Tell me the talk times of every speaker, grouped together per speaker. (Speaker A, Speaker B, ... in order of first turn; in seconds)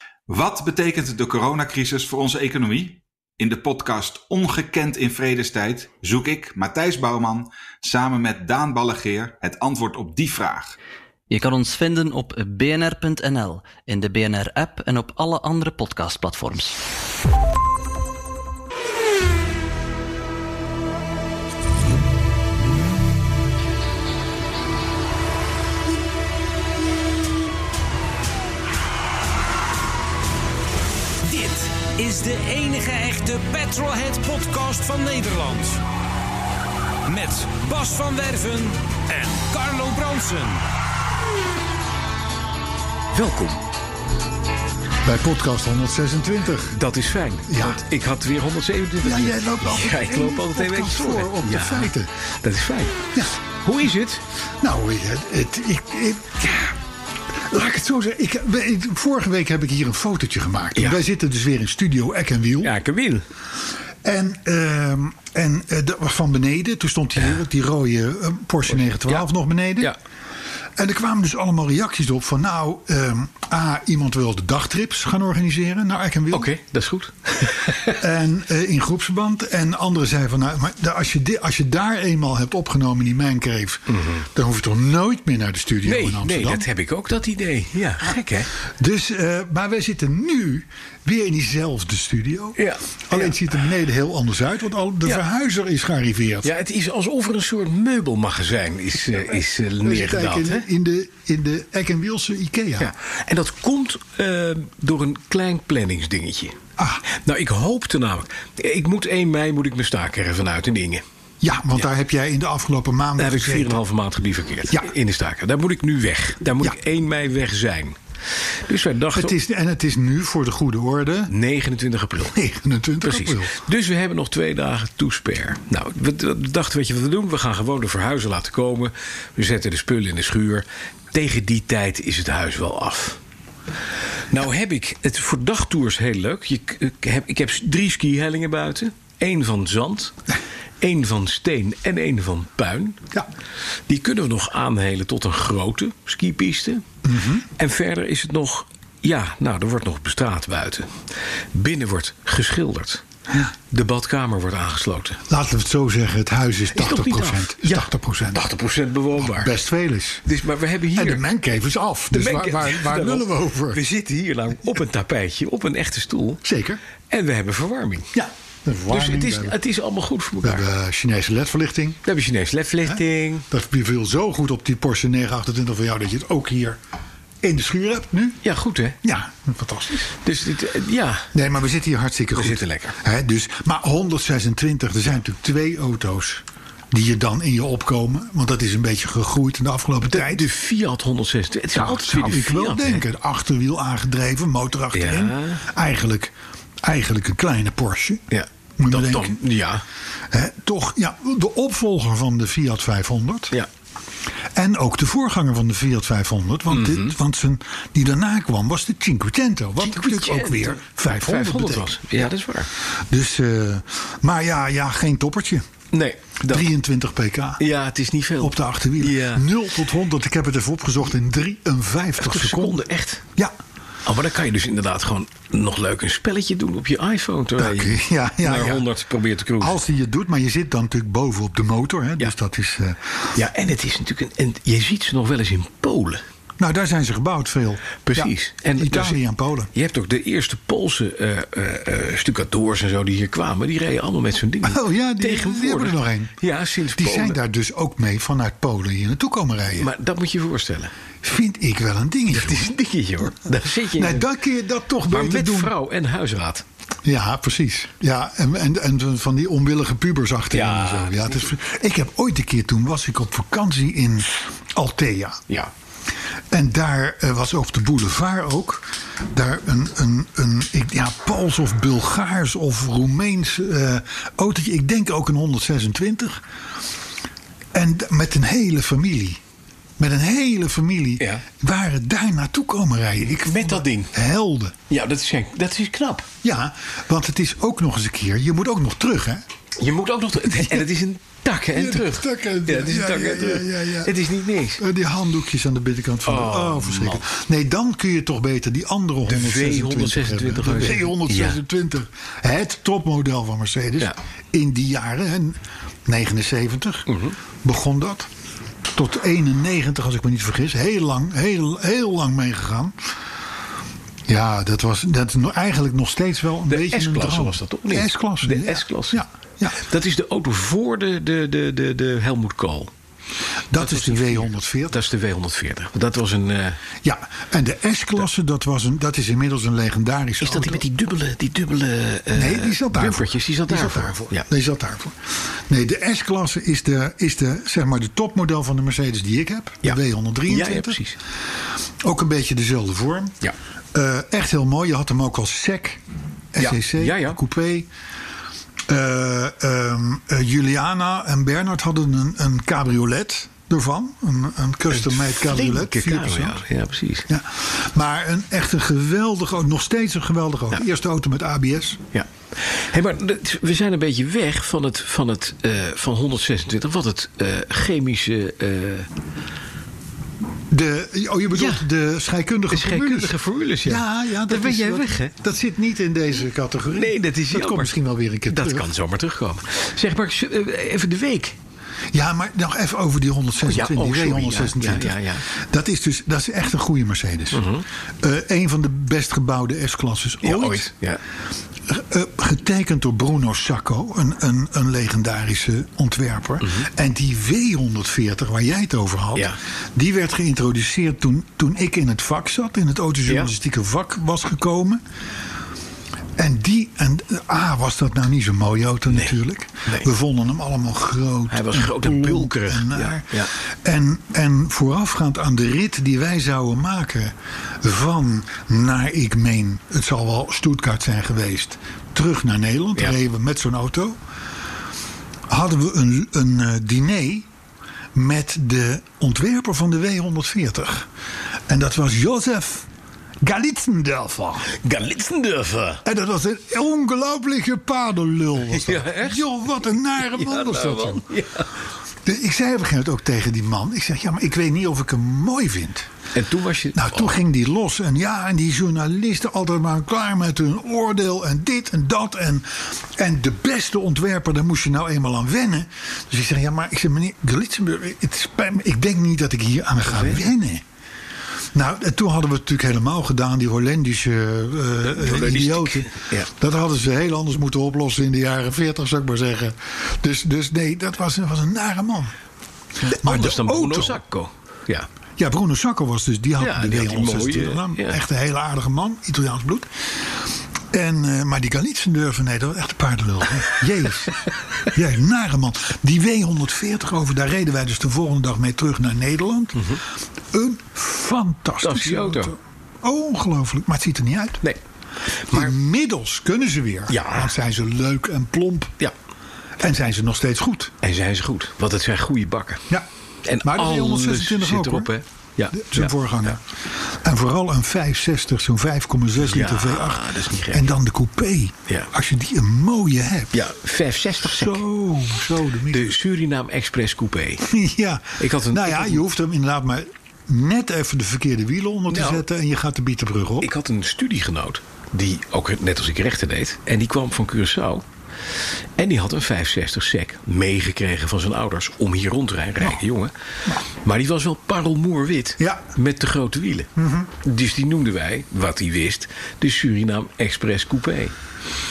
Speaker A: 0.3-10.7
Speaker B: 11.3-16.8
Speaker C: 31.2-35.8, 37.0-40.6
Speaker D: 43.1-43.6, 46.7-54.2, 62.6-63.2, 68.8-69.2, 76.3-78.0, 83.9-84.2, 85.8-88.5, 92.6-93.4, 96.4-100.6, 102.8-106.6, 107.1-111.0, 113.2-118.0, 118.5-119.3, 121.3-122.4, 123.0-133.2, 134.3-140.1, 140.8-143.0, 143.9-146.8, 147.6-150.9, 151.5-153.0, 153.7-155.2, 156.7-159.5, 160.2-161.2, 162.1-166.4, 167.1-168.1, 168.9-170.7, 172.0-173.5, 178.4-179.0, 180.0-181.3, 182.3-183.0, 190.1-193.0, 194.9-195.6, 198.3-199.8, 206.7-207.1, 209.8-212.7, 215.9-216.7, 217.6-219.6, 222.2-223.2, 224.1-229.8, 233.3-236.2, 238.0-239.2, 239.7-247.4, 249.8-250.9, 252.3-254.3, 255.1-256.6, 260.5-261.5, 283.3-284.1, 284.9-286.3, 289.8-294.8, 296.2-297.2, 299.3-301.6, 307.1-307.3, 316.7-319.2, 319.8-322.9, 323.7-326.8, 330.4-334.5, 339.8-341.1, 346.6-347.4, 354.9-357.3, 362.1-369.1, 371.5-371.9, 372.7-375.3, 376.9-377.9, 378.5-381.6, 383.6-385.4, 387.5-387.8, 390.4-391.2, 411.5-413.5, 434.7-436.0, 438.7-439.4, 440.2-441.7, 446.3-447.3, 460.0-460.5, 465.0-466.5, 473.0-475.1, 476.6-478.2, 489.8-490.0, 491.8-492.5, 495.5-495.7, 497.1-497.6, 501.0-502.8, 503.4-506.6, 509.4-510.9, 513.5-514.8, 515.9-517.7, 518.4-519.2, 522.1-522.4, 523.6-528.0, 529.0-533.3, 534.0-536.9, 537.4-541.3
Speaker E: 45.0-46.8, 47.5-47.8, 49.0-52.1, 54.6-56.8, 57.3-62.7, 64.0-69.9, 70.8-76.5, 78.0-86.7, 88.8-96.5, 99.8-102.9, 106.8-107.0, 111.4-113.8, 119.1-121.3, 122.2-123.6, 147.0-147.5, 155.3-158.5, 159.2-160.2, 160.9-163.8, 166.4-166.8, 168.1-169.6, 170.4-172.0, 172.8-176.8, 177.4-178.4, 179.0-180.1, 181.3-190.5, 191.7-198.2, 198.8-199.4, 200.3-203.5, 204.5-212.2, 213.1-215.7, 216.4-217.6, 218.4-222.8, 227.6-228.8, 229.6-233.0, 236.6-239.7, 244.6-246.3, 246.9-249.9, 251.2-252.7, 253.9-255.7, 257.0-265.4, 266.5-276.4, 277.7-279.4, 280.0-284.8, 286.4-289.4, 290.5-290.9, 291.7-294.1, 294.8-307.1, 307.6-308.3, 308.9-312.9, 314.3-319.8, 323.7-325.0, 327.0-330.8, 332.4-335.2, 335.7-341.0, 342.0-343.4, 343.9-346.0, 346.5-347.9, 348.9-356.6, 357.3-362.0, 370.7-378.9, 382.1-387.6, 388.2-390.9, 391.9-405.0, 406.4-424.2, 425.5-427.5, 428.1-431.1, 431.7-432.9, 433.4-434.7, 436.0-441.2, 442.2-446.1, 446.9-460.8, 461.7-472.3, 473.2-474.2, 475.4-484.3, 484.9-489.8, 490.5-494.6, 495.5-498.9, 499.8-500.9, 503.6-505.1, 505.7-513.5, 514.4-516.1, 517.6-523.7, 535.6-535.9, 537.0-537.3